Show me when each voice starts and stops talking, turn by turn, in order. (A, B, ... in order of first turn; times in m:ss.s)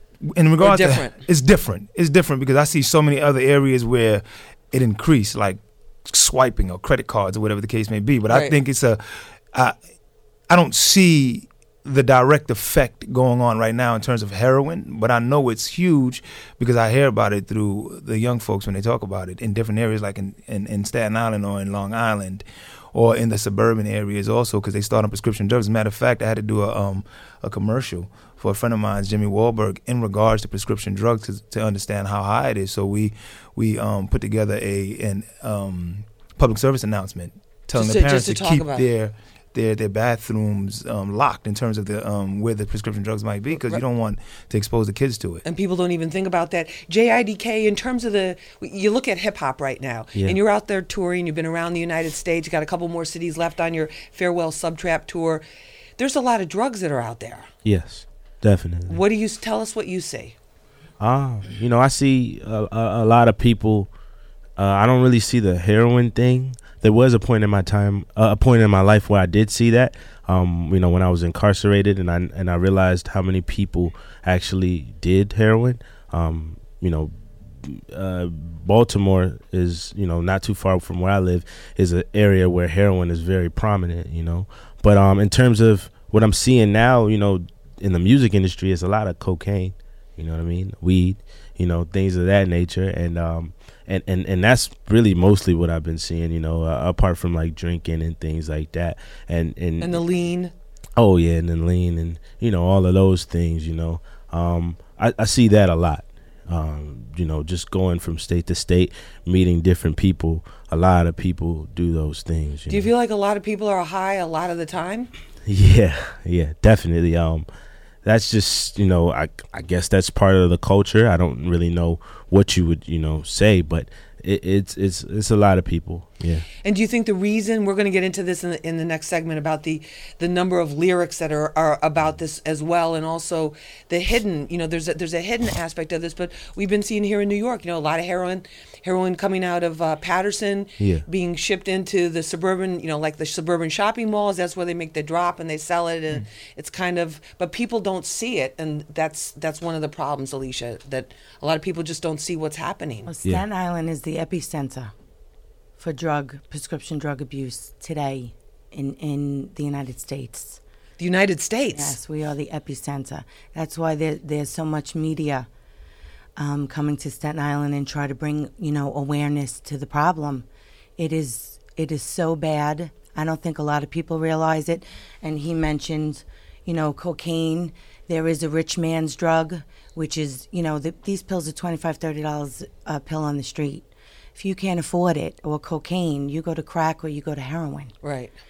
0:00.2-0:09.0 A
0:00.6-0:01.2 B
0:08.3-0:08.6 B
0:10.5-0:45.4 A
0:37.7-0:38.8 B
0:43.5-0:43.8 B
0:45.4-0:55.4 B
0:56.0-0:57.5 B
0:57.6-0:59.0 C
0:58.9-1:00.4 B
1:01.0-1:03.9 C
1:04.6-1:17.1 C
1:17.6-1:40.0 C
1:39.8-1:40.5 B
1:41.0-1:52.9 C
1:52.7-1:55.1 B
1:55.4-1:57.5 C
1:58.0-2:06.5 C
2:06.6-2:33.1 B
2:20.8-2:21.0 C
2:33.1-2:34.9 D
2:35.8-2:40.6 D
2:41.0-2:42.0 B
2:41.7-2:45.5 D
2:46.4-2:50.4 D
2:51.0-3:07.9 D
3:08.0-3:08.3 B